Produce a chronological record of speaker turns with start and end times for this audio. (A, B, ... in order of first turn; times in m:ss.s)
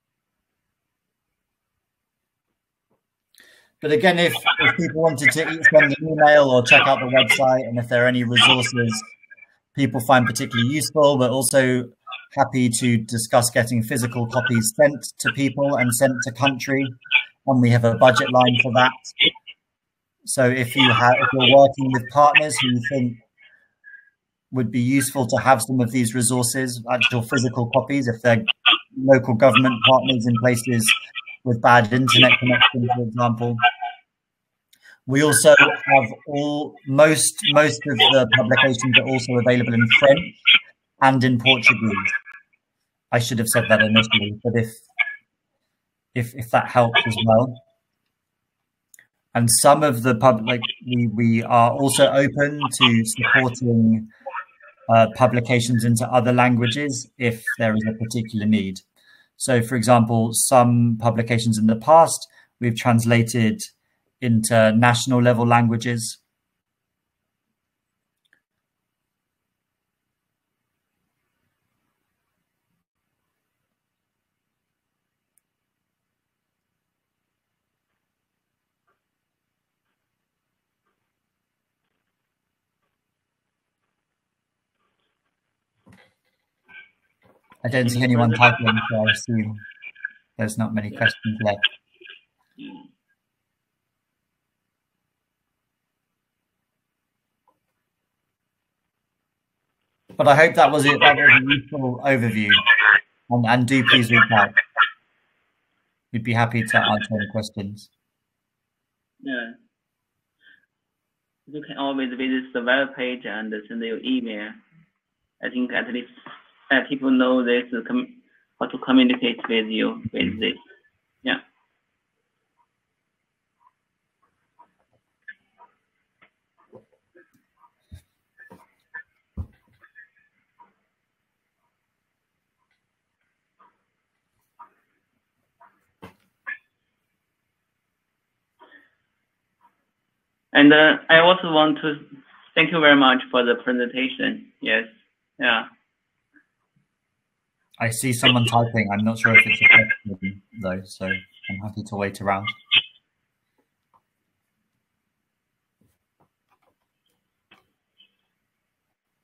0:03.8-0:09.1 A
0:09.7-0:19.1 A
0:20.2-0:23.2 A
0:24.5-0:33.6 A
0:35.0-0:40.4 A
0:41.0-0:42.1 A
0:43.1-0:44.8 A
0:46.1-0:47.6 A
0:49.3-0:54.1 A
0:54.9-0:58.8 A
0:59.4-1:06.2 A
1:27.6-1:29.6 A
1:27.9-1:28.4 B
1:30.4-1:31.6 A
1:32.6-1:32.8 B
1:40.2-1:42.6 A
1:43.3-1:44.6 A
1:46.1-1:47.9 A
1:49.2-1:49.5 B
1:51.5-1:54.6 B
1:55.4-1:56.2 B
1:56.7-2:00.6 B
2:20.5-2:25.7 B
2:27.8-2:32.6 A